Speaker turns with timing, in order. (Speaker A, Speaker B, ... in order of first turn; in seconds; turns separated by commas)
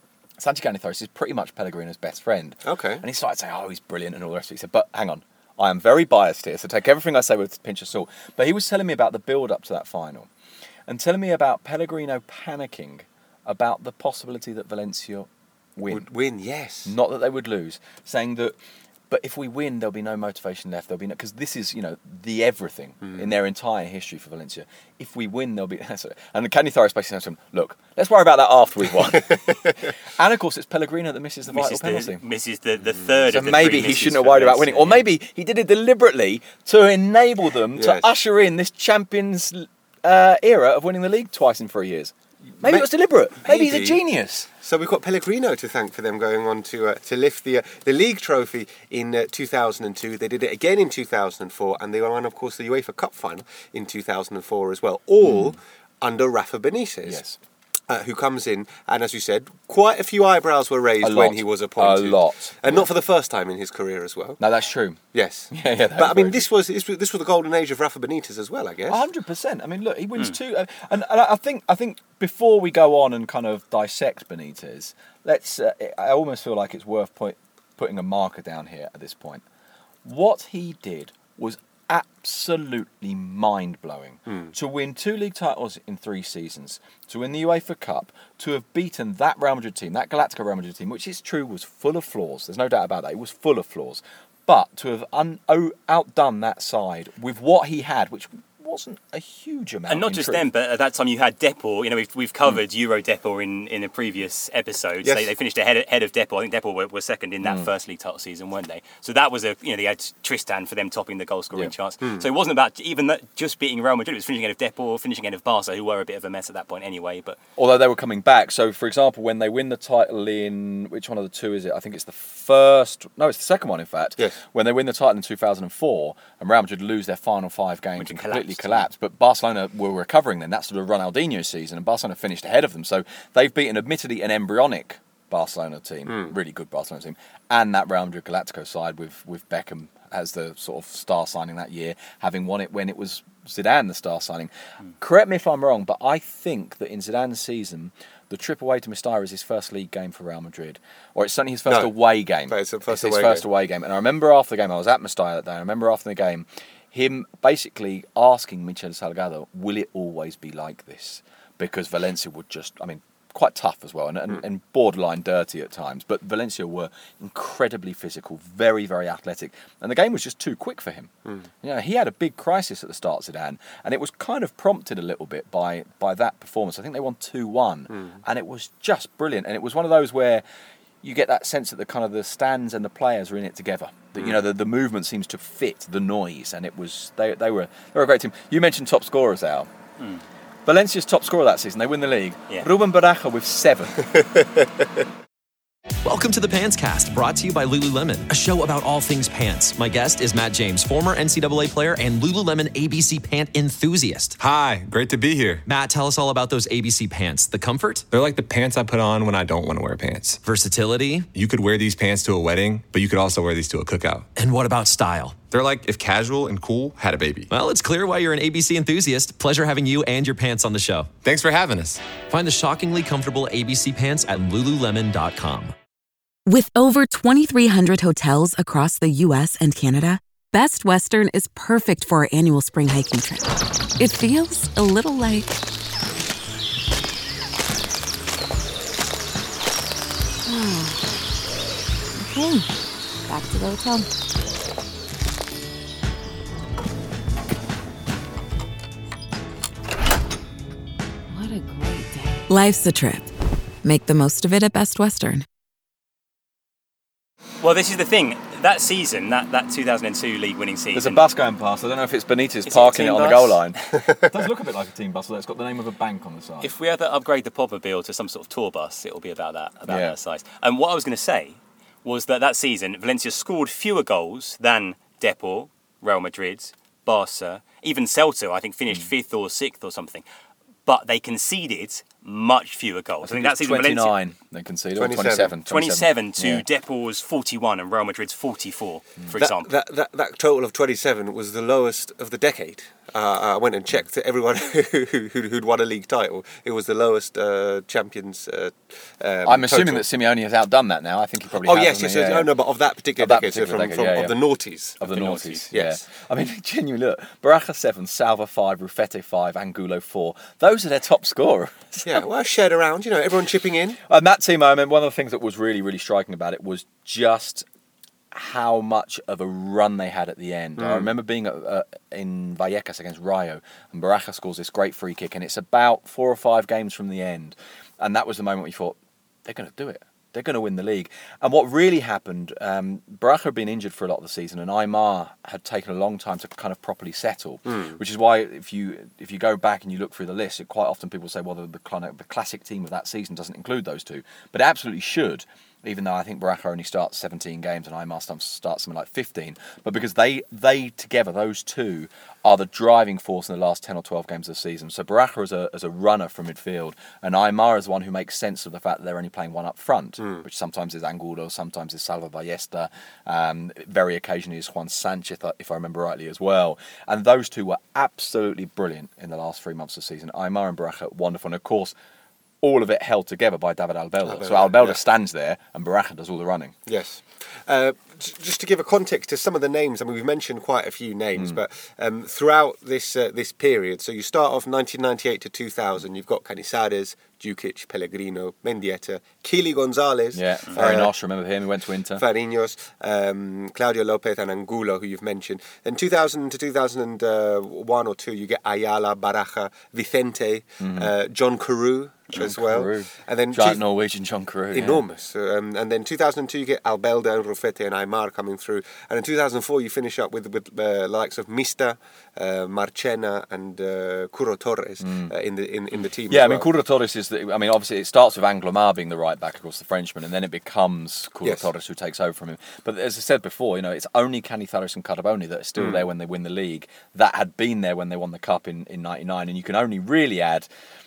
Speaker A: 0.4-10.3, Speaker B: 2.6-3.0, Speaker A: 10.9-16.1, Speaker B: 15.9-16.9, Speaker A: 16.8-18.6, Speaker A: 19.1-32.2, Speaker B: 29.3-29.5, Speaker C: 31.5-35.0, Speaker A: 33.3-44.5, Speaker B: 37.7-38.0, Speaker B: 42.6-42.9, Speaker B: 43.4-44.0, Speaker B: 44.6-57.2, Speaker A: 55.2-55.5, Speaker A: 57.0-57.4, Speaker B: 57.9-64.4, Speaker A: 61.0-62.9, Speaker A: 64.4-66.5, Speaker B: 65.1-69.0, Speaker A: 68.9-79.4, Speaker A: 80.0-100.4, Speaker C: 99.9-117.4, Speaker B: 105.0-105.3, Speaker A: 107.4-107.7, Speaker A: 117.6-180.4, Speaker C: 128.0-128.8, Speaker B: 136.1-136.3, Speaker B: 151.7-151.9, Speaker B: 152.5-153.4, Speaker B: 177.9-178.2, Speaker A: 181.0-189.7, Speaker A: 190.7-194.1, Speaker B: 194.1-194.8, Speaker D: 196.0-204.4, Speaker E: 204.4-205.6, Speaker D: 205.7-208.1, Speaker E: 208.1-210.4, Speaker D: 210.4-211.3, Speaker E: 211.3-214.3, Speaker D: 214.3-215.5, Speaker E: 215.5-217.5, Speaker D: 217.5-221.1, Speaker E: 221.2-222.1, Speaker D: 222.2-225.7, Speaker F: 226.5-235.6, Speaker F: 240.4-241.0, Speaker F: 242.2-242.7, Speaker F: 243.3-244.1, Speaker F: 251.3-253.3, Speaker F: 253.8-255.4, Speaker C: 257.6-261.2, Speaker A: 260.9-266.7, Speaker C: 262.6-263.7, Speaker C: 266.6-280.2, Speaker A: 269.9-270.1, Speaker C: 280.9-284.1, Speaker A: 283.2-286.6, Speaker B: 284.9-285.5, Speaker C: 285.7-289.7, Speaker B: 289.4-300.0, Speaker A: 299.4-302.5, Speaker B: 301.6-305.0, Speaker A: 303.2-304.4, Speaker A: 305.0-312.2, Speaker C: 305.1-305.6, Speaker B: 305.7-306.0, Speaker B: 312.0-314.0, Speaker A: 314.1-317.7, Speaker A: 318.3-371.9, Speaker B: 320.8-321.1, Speaker B: 337.6-338.0, Speaker B: 360.2-360.4, Speaker A: 372.6-376.8, Speaker B: 374.2-375.0, Speaker B: 376.9-391.1, Speaker A: 381.4-381.6, Speaker A: 390.3-392.2, Speaker B: 392.1-403.8, Speaker A: 400.8-401.1, Speaker A: 402.3-405.0, Speaker B: 404.7-416.7, Speaker A: 415.0-415.3, Speaker A: 416.3-430.7, Speaker B: 421.4-421.7, Speaker B: 425.8-426.0